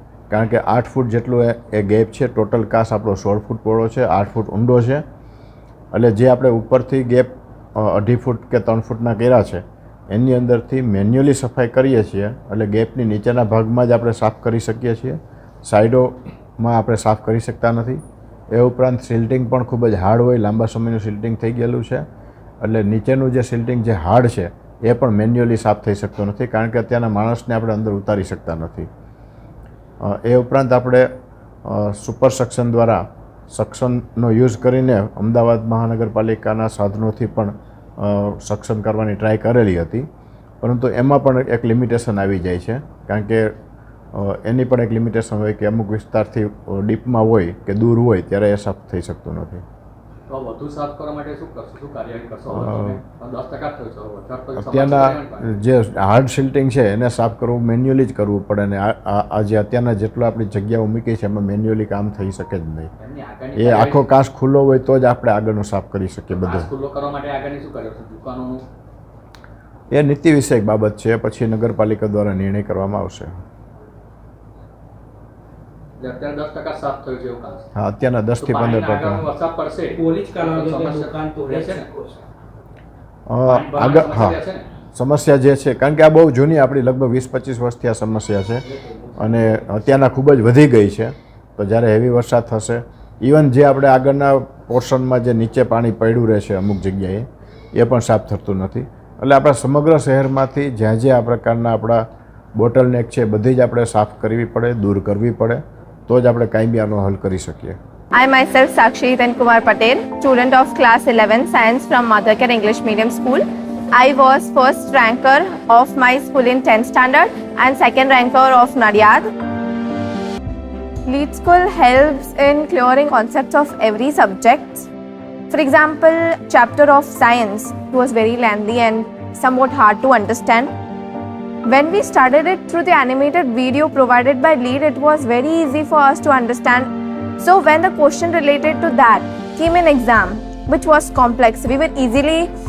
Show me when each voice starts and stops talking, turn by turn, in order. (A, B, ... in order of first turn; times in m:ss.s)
0:00.3-0:05.0 A
0:05.9-0:18.0 A
0:18.5-0:22.0 A
0:22.6-0:28.9 A
0:30.0-0:31.1 A
0:31.6-0:40.1 A
0:40.6-0:43.4 A
0:44.2-0:49.6 A
0:50.3-0:55.4 B
0:52.5-0:53.0 A
0:54.6-1:02.9 A
1:03.0-1:04.0 B
1:03.6-1:06.7 A
1:06.5-1:08.6 B
1:09.9-1:13.4 A
1:16.0-1:17.6 B
1:17.8-1:19.3 A
1:18.4-1:22.0 B
1:23.3-1:24.4 A
1:23.6-1:24.7 B
1:25.0-1:28.6 A
1:28.8-1:29.3 B
1:29.2-1:42.0 A
1:42.6-1:47.8 A
1:48.1-1:59.3 C
2:01.1-2:04.9 C
2:05.5-2:10.7 C
2:11.7-2:16.9 C
2:17.4-2:22.5 C